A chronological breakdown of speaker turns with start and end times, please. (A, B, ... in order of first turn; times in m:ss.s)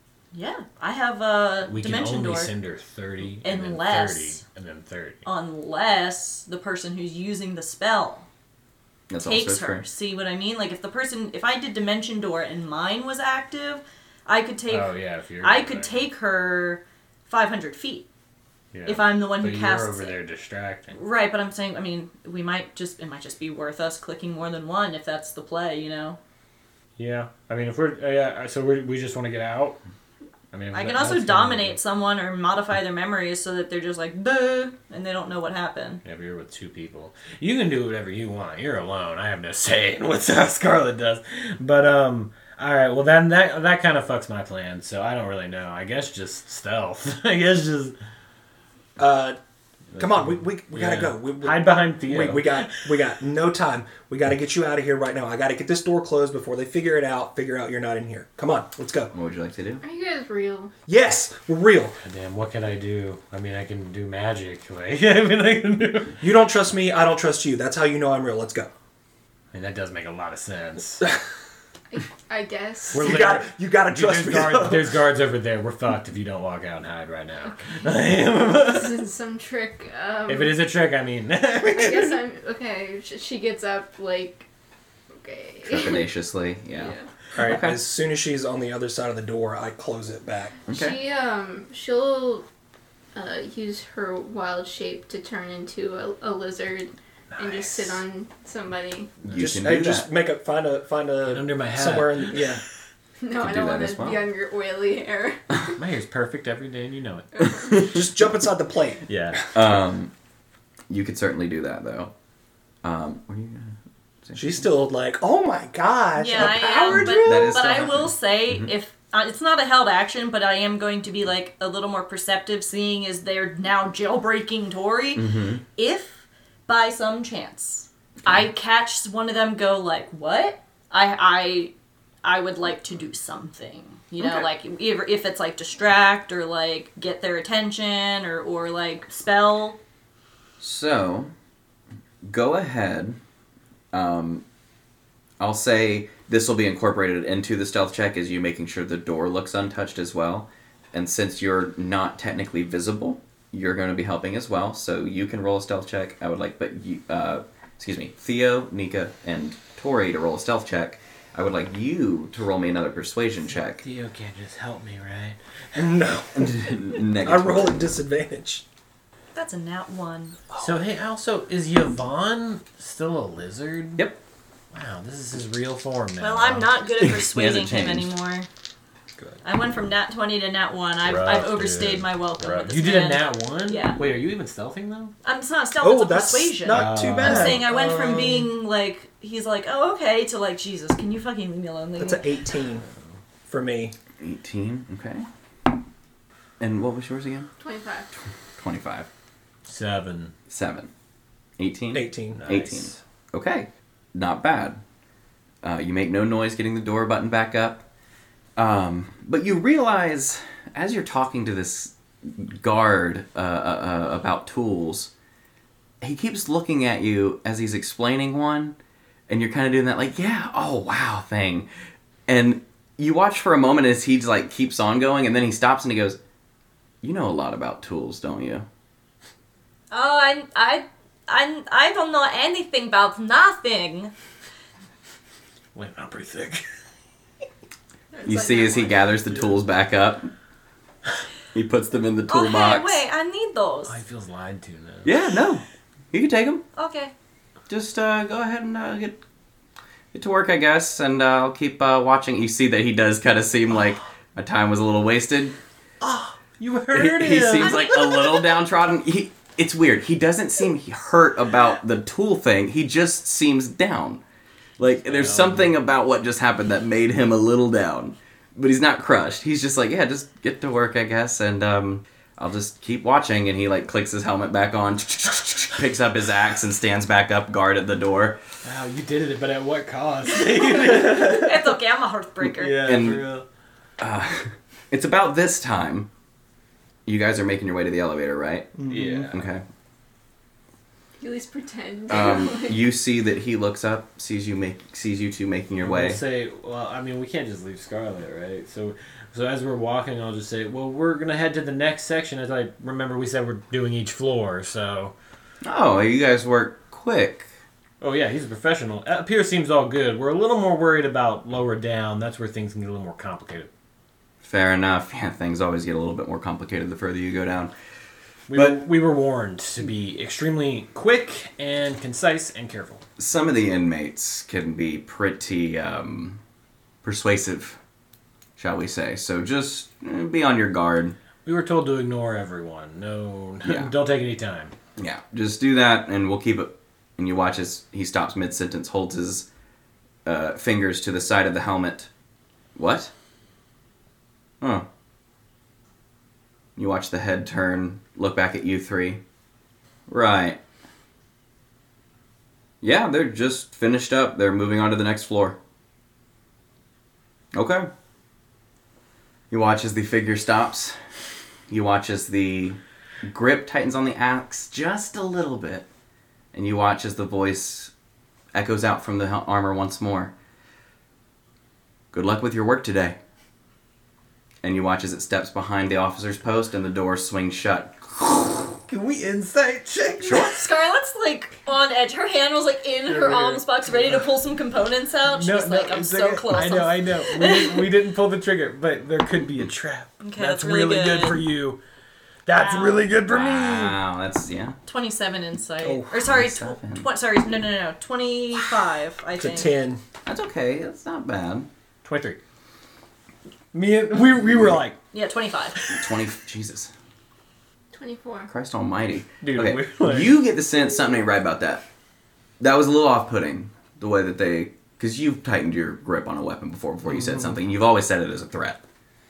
0:00.3-0:02.5 A
0:01.6-0:05.2 B
0:03.4-0:04.4 A
0:05.2-0:08.3 A
0:09.1-0:09.9 C
0:09.2-0:18.1 A
0:14.7-0:16.1 B
0:18.7-0:21.0 B
0:18.9-0:20.2 A
0:20.9-0:26.2 A
0:27.0-0:29.8 B
0:30.5-0:31.8 B
0:30.7-0:36.0 A
0:36.0-0:47.9 B
0:49.0-0:49.4 D
0:49.9-0:53.0 B
0:50.0-0:59.1 D
0:59.1-0:59.8 C
0:59.8-1:00.7 E
1:00.9-1:02.0 D
1:02.0-1:06.2 B
1:06.2-1:08.7 D
1:09.5-1:11.1 B
1:11.9-1:13.1 E
1:12.9-1:19.0 B
1:13.0-1:15.0 D
1:18.6-1:20.6 E
1:20.3-1:22.2 B
1:21.6-1:24.5 E
1:25.2-1:26.1 E
1:25.6-1:27.8 C
1:26.7-1:27.1 E
1:27.4-1:27.6 B
1:27.4-1:30.6 D
1:30.7-1:31.0 C
1:30.7-1:32.4 E
1:33.1-1:39.2 E
1:37.4-1:38.0 B
1:39.3-1:40.1 C
1:39.3-1:42.6 D
1:41.3-1:42.6 B
1:43.2-1:45.7 E
1:43.3-1:44.2 C
1:45.8-1:47.4 B
1:47.5-1:48.1 C
1:47.7-1:49.1 D
1:49.1-1:49.4 B
1:49.5-1:50.1 C
1:50.9-1:52.1 C
1:52.8-1:54.6 C
1:54.3-1:57.9 D
1:56.2-2:11.7 A
1:56.8-1:58.7 C
2:05.2-2:05.6 C
2:12.2-2:19.8 A
2:14.2-2:14.5 C
2:20.6-2:21.3 C
2:22.2-2:23.2 C
2:23.9-2:24.4 C
2:25.4-2:43.8 C
2:43.7-2:46.0 B
2:45.7-2:48.6 D
2:46.4-2:47.9 C
2:49.3-2:50.4 A
2:50.6-2:54.1 B
2:54.7-2:56.7 B
2:56.2-2:58.5 A
2:57.0-2:58.1 C
2:59.4-3:04.0 A
3:01.0-3:05.1 B
3:05.2-3:12.4 A
3:05.8-3:08.5 D
3:06.7-3:07.6 B
3:12.0-3:12.8 D
3:13.4-3:13.9 D
3:14.2-3:15.2 C
3:16.6-3:17.5 C
3:17.6-3:18.1 E
3:18.6-3:19.1 C
3:19.6-3:20.3 B
3:20.5-3:20.9 C
3:21.6-3:24.8 C
3:21.9-3:22.4 D
3:22.3-3:23.0 B
3:25.6-3:27.9 C
3:28.6-3:35.1 C
3:36.0-3:38.8 C
3:39.3-3:41.7 C
3:42.3-3:46.2 C
3:47.0-3:48.6 C
3:49.9-3:54.1 A
3:55.7-3:56.6 B
3:58.1-3:59.2 E
3:58.2-4:00.3 C
4:01.5-4:03.0 C
4:02.3-4:04.0 A
4:03.9-4:05.1 B
4:05.0-4:06.6 C
4:06.8-4:07.1 A
4:07.7-4:09.2 C
4:10.1-4:15.6 C
4:16.0-4:17.8 B
4:16.9-4:24.2 C
4:17.6-4:18.2 A
4:24.8-4:38.4 C
4:25.0-4:25.8 B
4:38.6-4:41.7 B
4:40.3-4:42.9 A
4:42.5-4:43.3 C
4:42.6-4:43.4 B
4:44.0-4:46.1 C
4:47.1-4:49.6 C
4:48.8-4:49.2 D
4:48.9-4:49.4 B
4:51.2-4:52.8 E
4:52.1-4:56.2 C
4:55.8-5:05.1 B
5:05.6-5:07.5 C
5:08.0-5:13.7 B
5:14.4-5:17.7 C
5:18.5-5:23.0 B
5:18.5-5:18.8 C
5:23.2-5:26.4 C
5:27.0-5:27.8 C
5:28.6-5:31.2 C
5:31.4-5:34.7 B
5:33.6-5:33.9 C
5:35.0-5:39.5 C
5:40.2-5:42.1 C
5:42.8-5:43.1 C
5:44.6-5:44.9 C
5:46.8-5:49.2 C
5:50.1-5:50.6 C
5:52.8-5:55.6 C
5:57.5-5:57.9 C
5:59.5-6:01.0 C
6:01.7-6:05.9 C
6:06.5-6:07.9 C
6:08.5-6:10.3 C
6:12.1-6:13.2 C
6:14.6-6:18.7 C
6:18.9-6:20.6 B
6:20.2-6:20.6 C
6:20.3-6:27.9 A
6:23.1-6:24.2 B
6:25.3-6:31.8 B
6:30.2-6:31.4 A
6:32.4-6:34.0 B
6:32.5-6:33.1 A
6:33.3-6:34.8 C
6:34.9-6:39.7 A
6:36.2-6:37.1 C
6:39.4-6:40.0 D
6:40.2-6:41.7 C
6:42.0-6:42.4 B
6:43.7-6:45.0 B
6:45.1-6:45.8 A
6:45.7-6:46.1 B
6:45.9-6:46.9 C
6:47.9-6:48.5 E
6:48.5-6:51.8 C
6:49.4-6:50.4 B
6:52.6-6:58.8 C